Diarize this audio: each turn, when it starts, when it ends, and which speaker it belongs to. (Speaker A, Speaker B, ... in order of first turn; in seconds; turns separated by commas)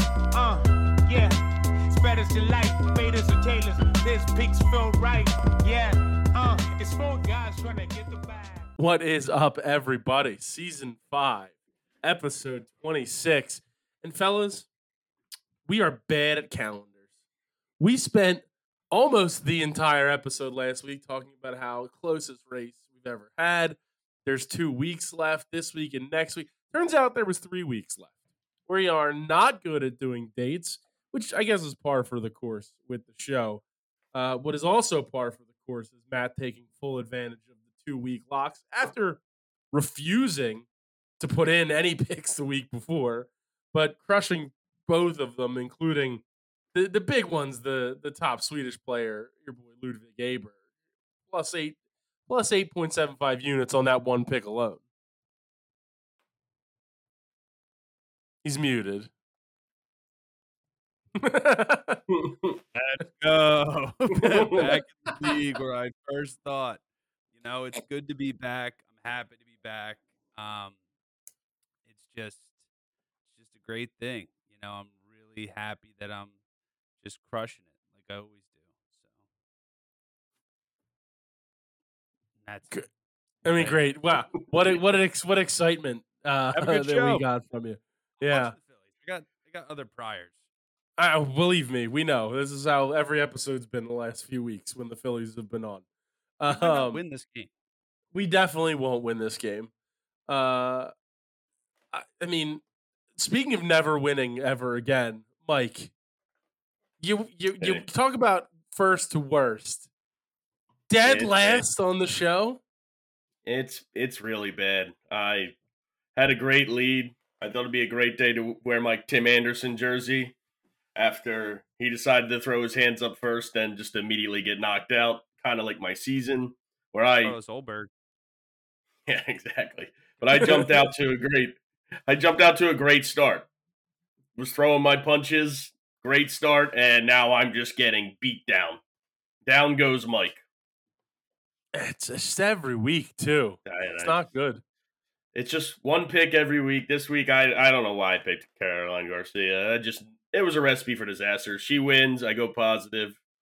Speaker A: 0.3-8.7, Speaker B: 8.8-14.7, Speaker B: 15.7-17.0, Speaker B: 17.8-28.1, Speaker B: 28.7-39.2, Speaker B: 39.7-40.7, Speaker B: 41.2-46.2, Speaker B: 46.7-50.6, Speaker B: 51.3-54.8, Speaker B: 58.4-59.1, Speaker B: 61.2-62.0, Speaker C: 62.2-62.6, Speaker D: 62.8-66.8, Speaker C: 64.3-64.7, Speaker D: 67.3-70.8, Speaker D: 71.9-72.5, Speaker D: 73.4-76.3, Speaker D: 77.0-78.5, Speaker D: 82.4-82.8, Speaker B: 83.4-88.5, Speaker D: 83.5-83.8, Speaker D: 86.5-87.2, Speaker D: 88.2-90.3, Speaker B: 91.0-95.8, Speaker B: 96.4-97.0, Speaker D: 96.5-97.5, Speaker B: 98.1-99.7, Speaker B: 100.3-100.9, Speaker B: 101.9-102.6, Speaker B: 103.2-105.9, Speaker B: 107.0-109.9, Speaker B: 110.9-112.6, Speaker C: 111.0-111.6, Speaker C: 113.5-115.5, Speaker C: 116.2-120.3, Speaker C: 121.0-127.3, Speaker D: 127.2-127.9, Speaker C: 129.1-133.5, Speaker C: 134.4-138.8, Speaker C: 139.5-140.4, Speaker B: 141.7-144.6, Speaker C: 143.7-144.2, Speaker C: 145.3-153.2